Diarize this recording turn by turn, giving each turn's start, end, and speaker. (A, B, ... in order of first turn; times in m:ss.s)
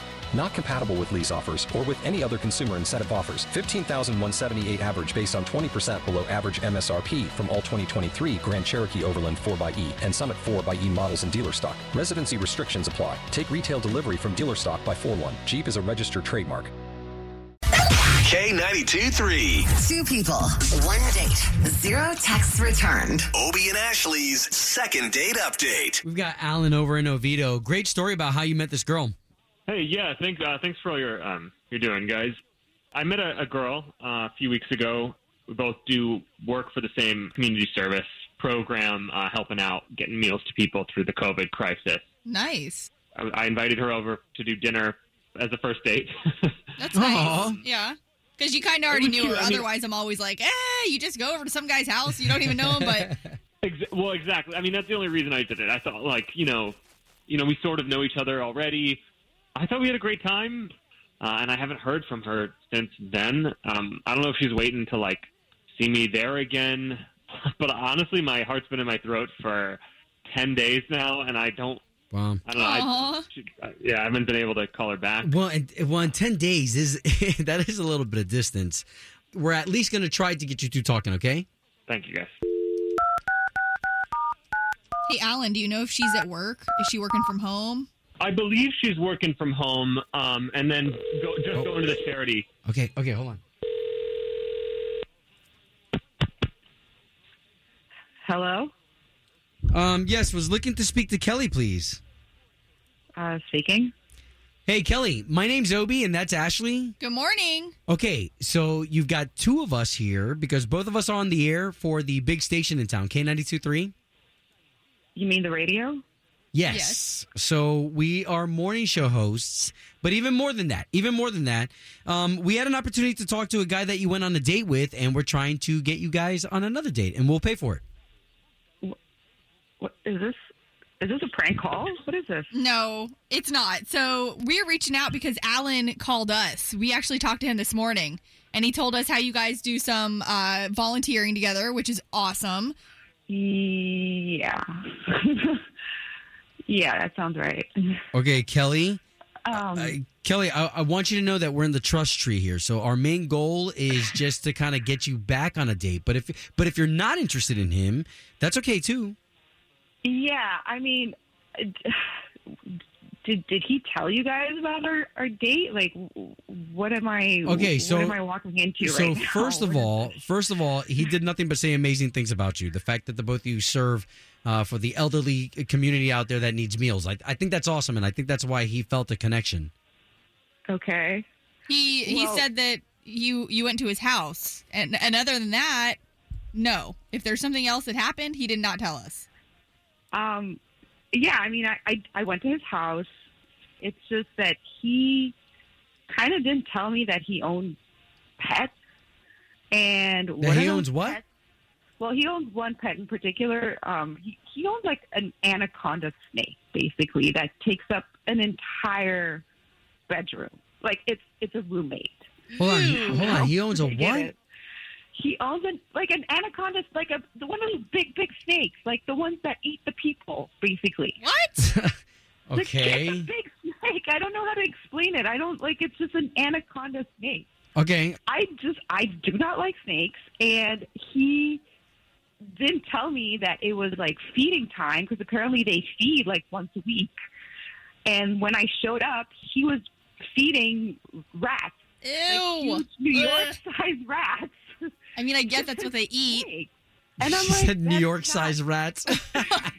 0:00.3-0:16.7 A
0:18.2-0:19.7 B
0:19.7-0:23.4 C
0:23.3-0:26.0 B
0:26.0-0:29.1 D
0:29.7-0:32.4 E
0:33.0-0:42.0 E
0:42.2-0:42.9 F
0:43.1-0:46.6 E
0:46.8-0:53.2 F
0:46.9-0:47.6 D
0:47.3-0:47.6 E
0:48.9-0:49.6 E
0:52.5-0:53.3 D
0:53.6-0:56.8 E
0:57.3-0:59.0 E
0:59.6-1:11.8 E
1:12.1-1:12.4 D
1:12.4-1:15.3 E
1:12.6-1:13.3 F
1:15.2-1:21.4 D
1:21.9-1:22.3 E
1:25.1-1:27.9 F
1:28.2-1:32.5 E
1:32.6-1:33.4 D
1:38.2-1:38.7 G
1:39.7-1:42.0 D
1:43.2-1:43.9 G
1:44.7-1:47.0 D
1:47.0-1:47.8 F
1:47.9-1:53.9 D
1:55.2-1:56.0 G
1:56.5-2:07.8 D
1:56.7-1:57.1 F
2:09.8-2:10.4 G
2:11.0-2:12.5 G
2:12.5-2:22.7 F
2:23.3-2:25.6 G
2:26.7-2:28.0 G
2:28.1-2:29.0 D
2:29.4-2:30.0 G
2:29.5-2:39.2 D
2:40.0-2:42.2 G
2:42.7-2:50.0 G
2:47.4-2:48.2 D
2:48.8-2:59.7 D
3:00.7-3:01.2 G
3:01.7-3:06.0 F
3:02.0-3:02.4 G
3:06.5-3:09.3 F
3:10.1-3:10.6 G
3:11.1-3:13.1 G
3:13.8-3:15.3 G
3:16.1-3:17.8 G
3:18.4-3:18.8 G
3:19.7-3:21.2 G
3:20.4-3:21.2 D
3:22.0-3:29.4 G
3:30.1-3:32.2 G
3:32.5-3:33.4 F
3:32.6-3:34.3 D
3:33.0-3:34.4 G
3:35.1-3:41.2 G
3:41.2-3:41.6 F
3:41.6-3:42.0 D
3:42.5-3:43.3 D
3:42.5-3:47.5 G
3:47.8-3:48.2 D
3:48.2-3:51.6 G
3:52.4-3:57.1 G
3:58.0-4:04.9 G
4:02.0-4:03.5 F
4:05.2-4:06.5 F
4:05.5-4:08.6 G
4:07.2-4:09.7 D